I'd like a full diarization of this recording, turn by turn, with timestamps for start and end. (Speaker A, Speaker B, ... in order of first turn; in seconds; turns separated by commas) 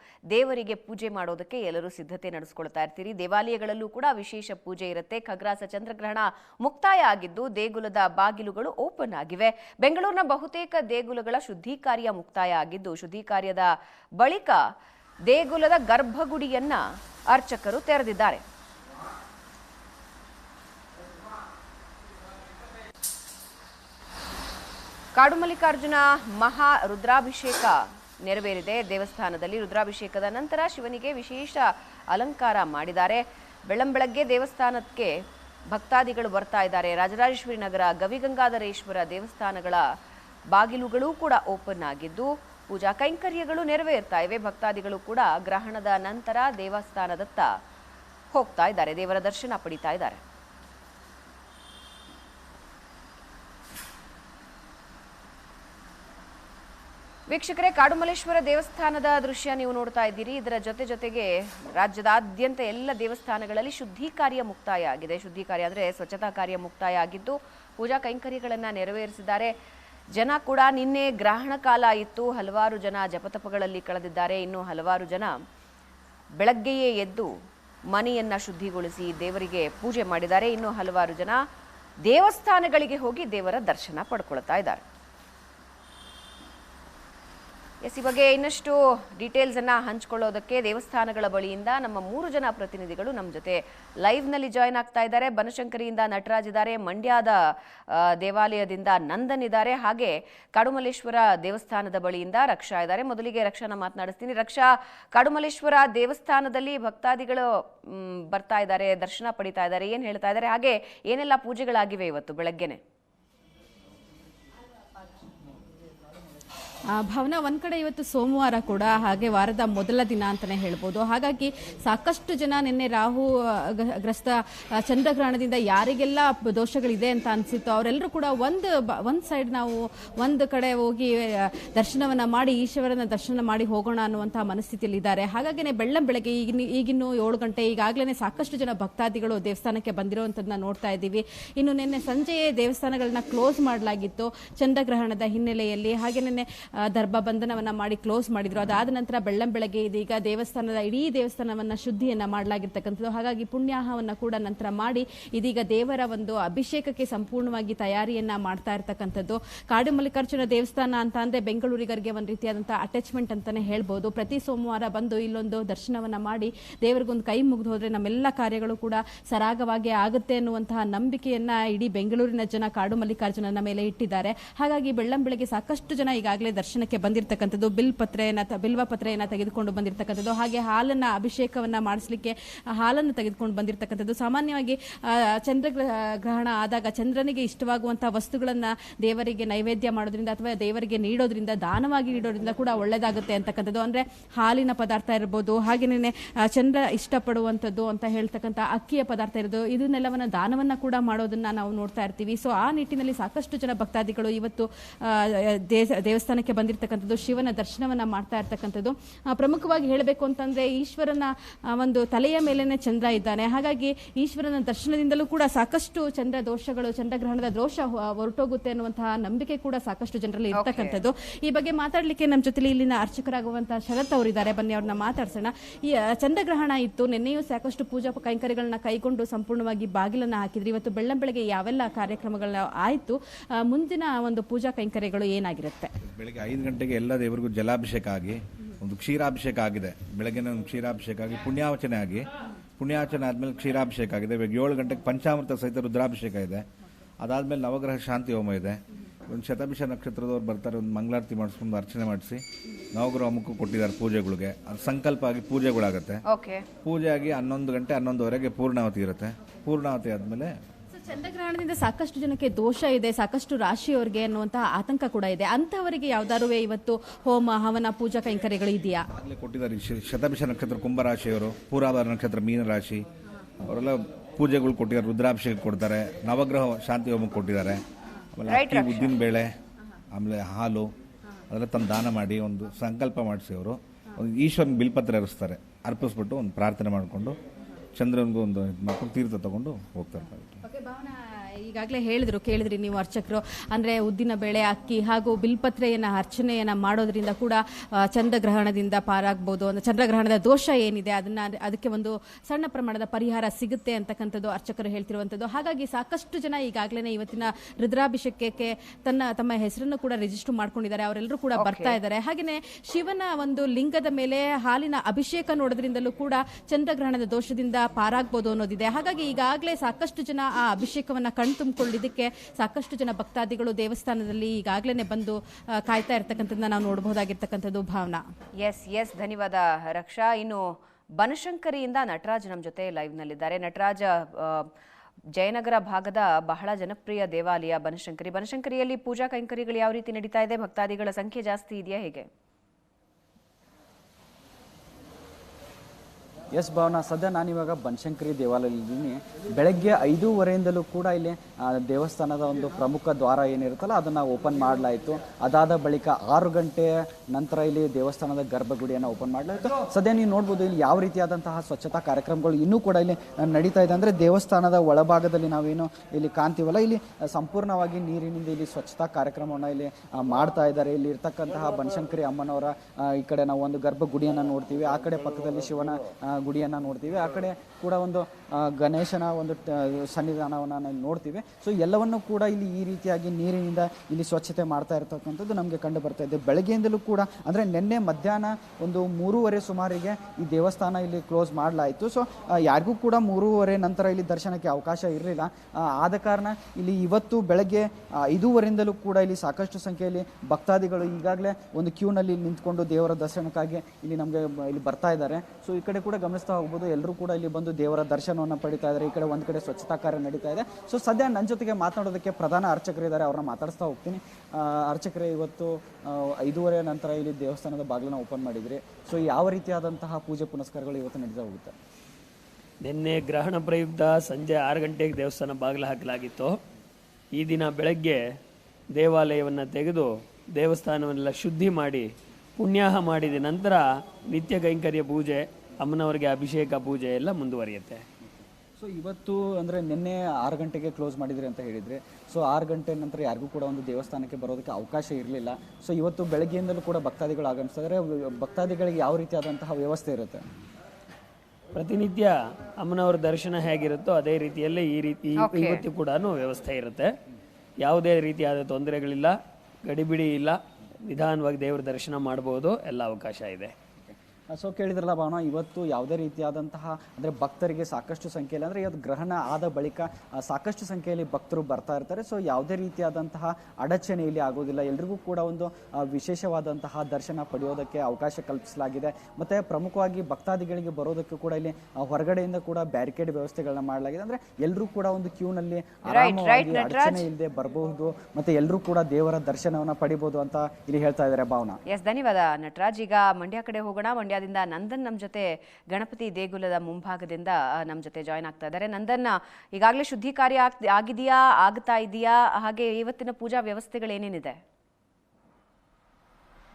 Speaker A: 0.3-14.6, Speaker A: 15.3-18.4, Speaker A: 25.1-35.1, Speaker A: 35.7-39.8, Speaker A: 40.5-47.5, Speaker A: 48.3-50.2, Speaker A: 57.3-69.5, Speaker A: 70.2-75.3, Speaker A: 76.4-77.3, Speaker A: 77.9-81.4, Speaker A: 82.1-84.8, Speaker A: 87.8-97.3, Speaker A: 97.9-112.8, Speaker B: 116.9-235.9, Speaker A: 220.6-221.0, Speaker C: 236.1-246.6, Speaker C: 247.2-248.8, Speaker C: 249.3-252.4, Speaker C: 252.9-256.2, Speaker A: 256.3-256.7, Speaker C: 256.9-260.5, Speaker B: 260.9-269.0, Speaker C: 269.2-273.1, Speaker C: 273.7-277.8, Speaker C: 278.4-279.5, Speaker A: 278.5-279.1, Speaker C: 280.1-280.9, Speaker C: 281.5-287.4, Speaker C: 287.9-290.6, Speaker B: 290.6-328.2, Speaker A: 311.6-312.0, Speaker A: 328.6-330.6, Speaker A: 331.2-334.7, Speaker A: 335.4-342.3, Speaker D: 346.5-421.7, Speaker E: 422.8-426.6, Speaker E: 427.3-428.3, Speaker E: 428.9-438.0, Speaker D: 438.8-450.4, Speaker E: 451.8-457.1, Speaker A: 455.4-455.8, Speaker E: 457.8-463.7, Speaker D: 464.1-491.8, Speaker A: 486.1-487.3, Speaker A: 491.9-504.6